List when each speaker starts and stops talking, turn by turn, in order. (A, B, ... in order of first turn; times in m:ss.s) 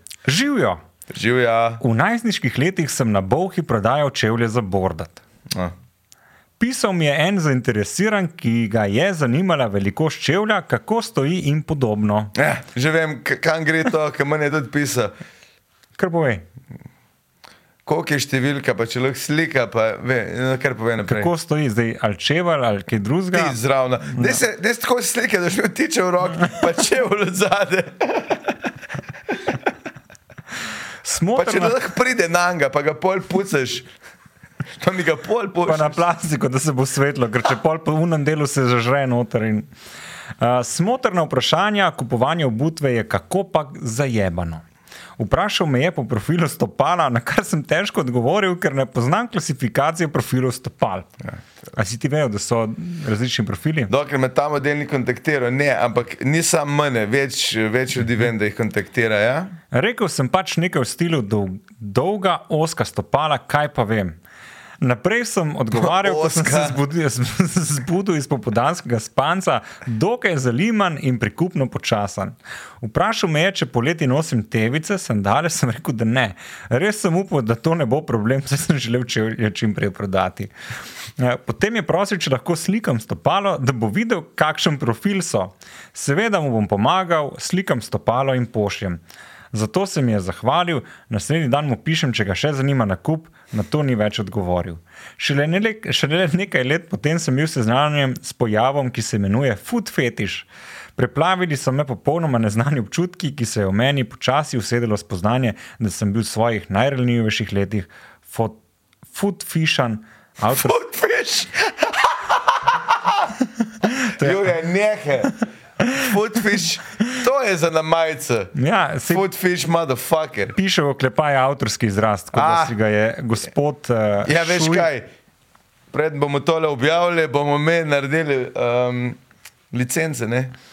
0:00.3-0:00.8 A
0:01.1-0:01.8 B
0:01.8-0:05.2 A
0:06.6-0:12.3 A
0:12.4-0:15.1 B
0:16.0-0:16.4 A
0:17.9-0:21.3 B
0:21.1-0:23.6 A
0:23.3-0:28.6 B
0:24.1-0:24.4 A
0:31.0-0:31.8 A
0:31.4-0:33.9 B
0:34.8-0:36.0 B
0:35.7-0:39.7 A
0:40.4-0:44.6 A
0:45.2-0:51.1 A
0:51.7-0:53.9 A
0:53.9-0:59.5 B
0:59.7-1:04.2 A
1:04.8-1:20.5 A
1:05.7-1:06.8 B
1:21.2-1:29.0 A
1:29.5-1:48.6 A
1:49.1-1:50.8 A
1:50.4-1:53.3 B
1:53.6-1:54.4 A
1:54.2-1:55.4 B
1:55.9-1:58.5 B
1:58.6-1:59.2 A
1:59.1-2:00.6 B
2:00.6-2:04.9 A
2:02.3-2:02.8 B
2:04.2-2:05.1 B
2:05.9-2:09.2 B
2:09.7-2:10.5 B